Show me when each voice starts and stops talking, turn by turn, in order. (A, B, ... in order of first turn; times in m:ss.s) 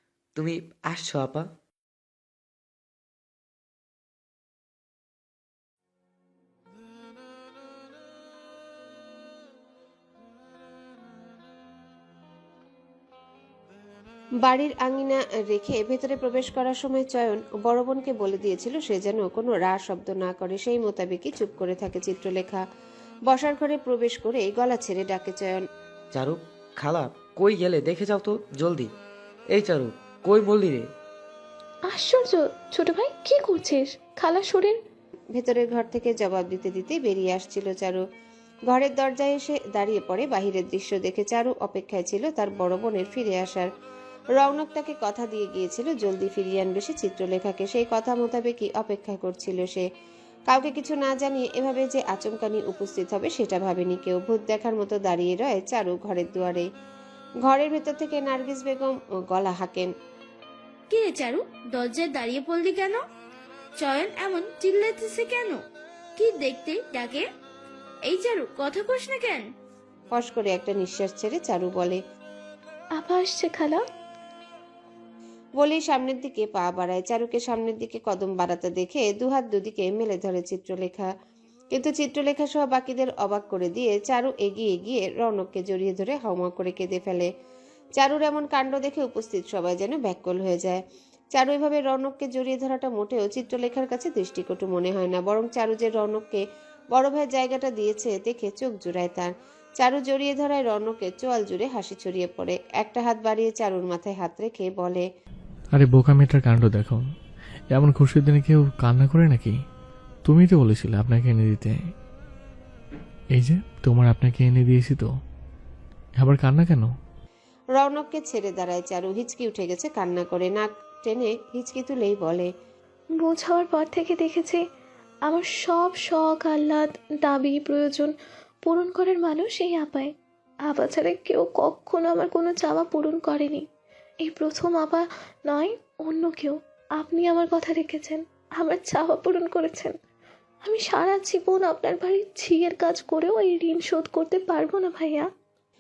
0:00.4-0:01.5 A
0:14.4-0:22.6 B
0:23.3-0:25.6 B
0:26.1-0:28.9 A
0:29.5-0:30.9 A
0:31.9-0:34.8 C
0:35.3-0:38.0 B
0:38.7-0:43.7 B
0:44.4-0:49.8 B
0:50.5-0:56.7 B
0:57.4-0:59.9 B
1:00.9-1:03.0 D
1:03.8-1:05.5 D
1:06.2-1:07.2 D
1:08.1-1:09.4 D
1:10.1-1:12.0 B
1:13.0-1:13.8 C
1:15.6-1:21.1 B
1:21.7-1:27.3 B
1:28.0-1:30.8 B
1:31.3-1:36.4 B
1:36.9-1:45.0 B
1:45.7-1:47.0 E
1:47.7-1:49.5 E
1:50.2-1:51.7 E
1:53.3-1:55.1 E
1:56.2-1:56.9 E
1:57.8-2:02.5 B
2:03.2-2:04.6 C
2:05.2-2:08.1 C
2:08.6-2:10.1 C
2:10.7-2:13.7 C
2:14.2-2:20.0 C
2:20.6-2:25.3 C